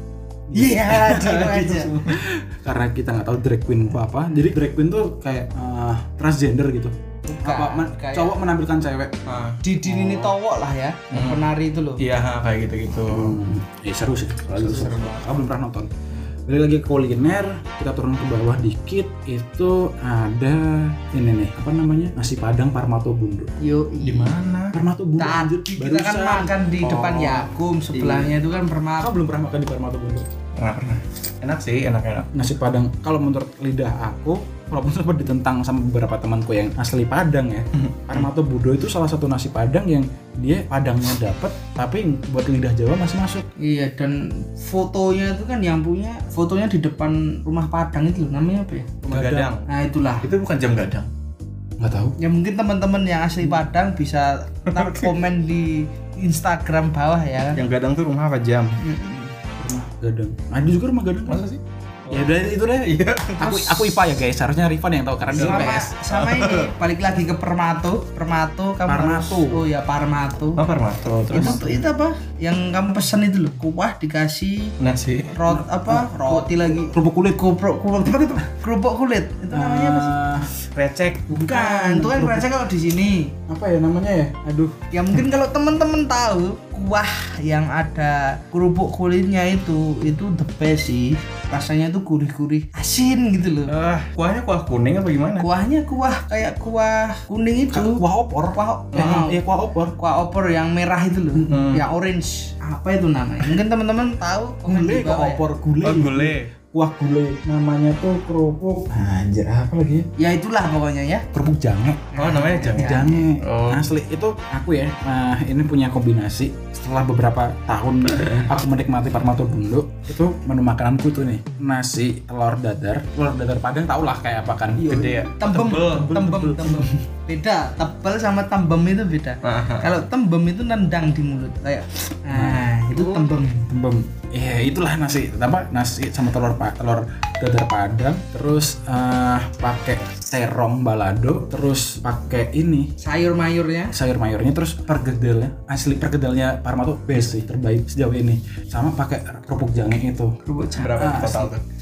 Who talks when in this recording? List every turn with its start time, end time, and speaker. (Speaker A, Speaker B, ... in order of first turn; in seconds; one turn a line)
Speaker A: 0.5-1.9
Speaker B: 0.8-2.2
Speaker C: 0.9-1.4
Speaker C: 2.1-9.2
Speaker A: 7.3-8.4
Speaker B: 9.2-10.3
Speaker A: 9.6-12.0
Speaker B: 11.1-13.4
Speaker C: 13.1-15.9
Speaker B: 14.6-15.4
Speaker C: 16.4-23.5
Speaker A: 23.6-24.3
Speaker B: 24.0-24.8
Speaker C: 24.7-26.5
Speaker A: 25.2-29.1
Speaker B: 26.8-28.3
Speaker C: 29.0-30.3
Speaker B: 30.6-32.3
Speaker C: 32.3-43.5
Speaker B: 37.8-38.3
Speaker A: 43.6-49.0
Speaker C: 49.0-49.5
Speaker B: 49.1-49.6
Speaker A: 49.7-50.2
Speaker B: 50.2-51.1
Speaker C: 51.8-52.1
Speaker A: 52.2-57.6
Speaker B: 54.7-55.1
Speaker B: 57.5-58.8
Speaker A: 58.8-59.3
Speaker C: 59.6-61.4
Speaker B: 61.3-62.3
Speaker C: 62.1-65.9
Speaker B: 62.8-63.5
Speaker A: 63.4-63.9
Speaker B: 65.3-66.7
Speaker A: 65.3-70.6
Speaker C: 68.9-69.6
Speaker B: 70.6-71.7
Speaker C: 71.3-71.8
Speaker A: 71.3-74.7
Speaker B: 74.8-75.3
Speaker A: 75.3-80.1
Speaker C: 75.5-78.4
Speaker C: 79.5-80.5
Speaker B: 80.7-81.3
Speaker C: 81.3-82.5
Speaker A: 81.3-83.3
Speaker C: 83.5-84.8
Speaker A: 84.9-93.7
Speaker B: 93.7-95.5
Speaker A: 95.4-98.0
Speaker C: 97.7-100.0
Speaker A: 98.5-99.3
Speaker B: 98.9-99.2
Speaker A: 100.0-105.4
Speaker C: 101.3-101.7
Speaker B: 101.5-101.8
Speaker C: 104.6-110.1
Speaker B: 105.8-106.5
Speaker A: 110.2-111.2
Speaker C: 111.3-112.1
Speaker A: 112.1-113.2
Speaker B: 112.2-113.9
Speaker C: 112.7-127.0
Speaker B: 124.8-125.3
Speaker A: 124.9-133.7
Speaker B: 129.4-129.9
Speaker C: 132.3-142.9
Speaker A: 143.0-143.9
Speaker C: 143.9-150.3
Speaker A: 150.4-151.5
Speaker B: 150.7-151.6
Speaker C: 150.9-151.5